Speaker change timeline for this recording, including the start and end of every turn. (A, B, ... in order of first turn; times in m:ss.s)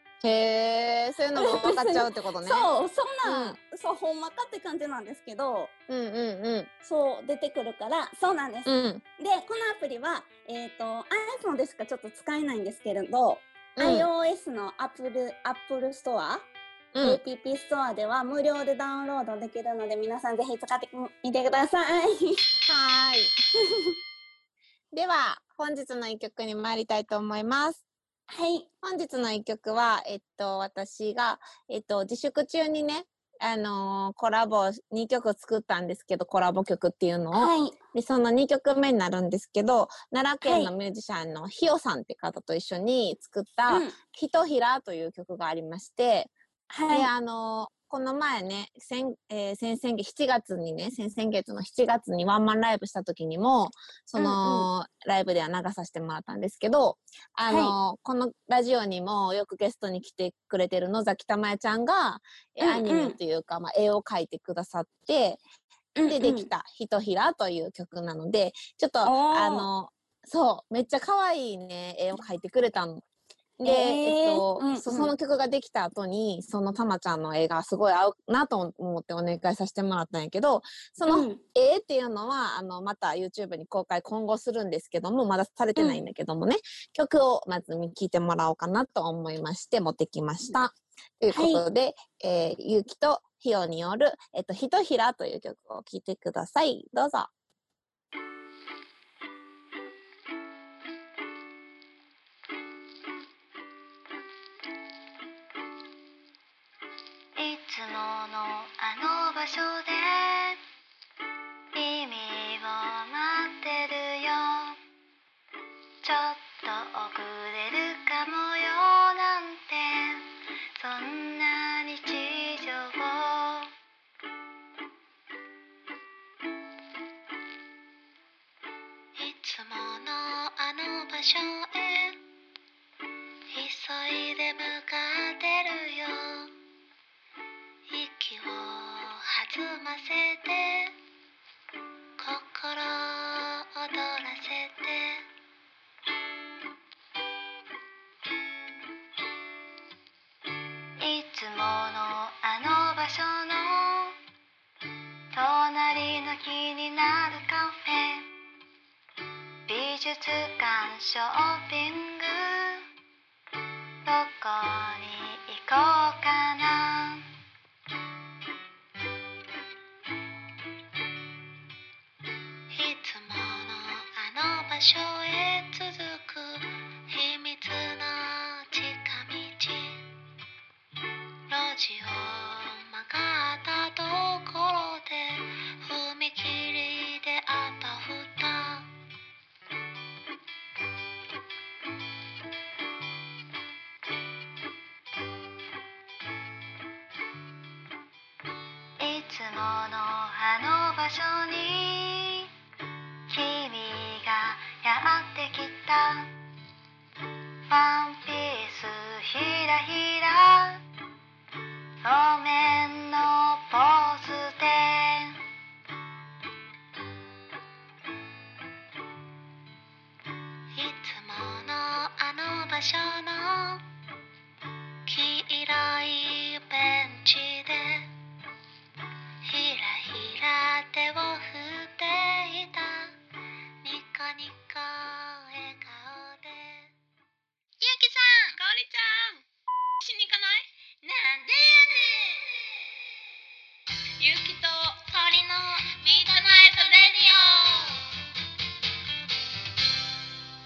0:00.2-0:02.7 A
0:01.3-0:05.7 B
0:03.2-0:03.6 A
0:05.9-0:06.7 A
0:06.8-0:16.5 B
0:08.6-0:09.0 A
0:13.8-0:14.1 A
0:16.9-0:17.2 A
0:17.0-0:22.4 B
0:22.6-0:23.3 A
0:24.9-0:27.8 A
0:28.3-0:28.7 B
0:28.8-0:46.3 A
0:37.3-0:37.8 B
0:40.4-0:40.7 B
0:43.7-0:44.0 B
0:46.7-0:47.1 B
0:46.9-1:05.4 A
0:54.2-0:54.7 B
0:57.5-0:57.8 B
1:02.6-1:03.2 B
1:06.0-1:06.5 B
1:06.1-1:13.0 A
1:09.0-1:09.7 B
1:13.6-1:37.3 A
1:13.6-1:15.1 B
1:21.1-1:21.4 B
1:25.8-1:26.0 B
1:31.3-1:31.6 B
1:47.4-1:50.6 C
1:51.7-1:54.8 C
1:56.0-2:03.7 C
2:09.2-2:12.2 C
2:13.5-2:16.5 C
2:17.9-2:20.9 C
2:22.2-2:25.3 C
2:31.0-2:34.1 C
2:35.3-2:38.3 C
2:39.7-2:42.8 C
2:44.0-2:47.3 C
2:52.7-3:00.1 C
3:01.5-3:08.9 C
3:19.0-3:22.5 C
3:23.3-3:26.3 C
3:27.7-3:30.8 C
3:32.0-3:35.4 C
3:40.7-3:43.8 C
3:45.0-3:48.1 C
3:49.4-3:53.1 C
3:53.8-3:56.9 C
3:57.8-3:59.4 C
4:00.0-4:02.7 C
4:04.2-4:08.1 C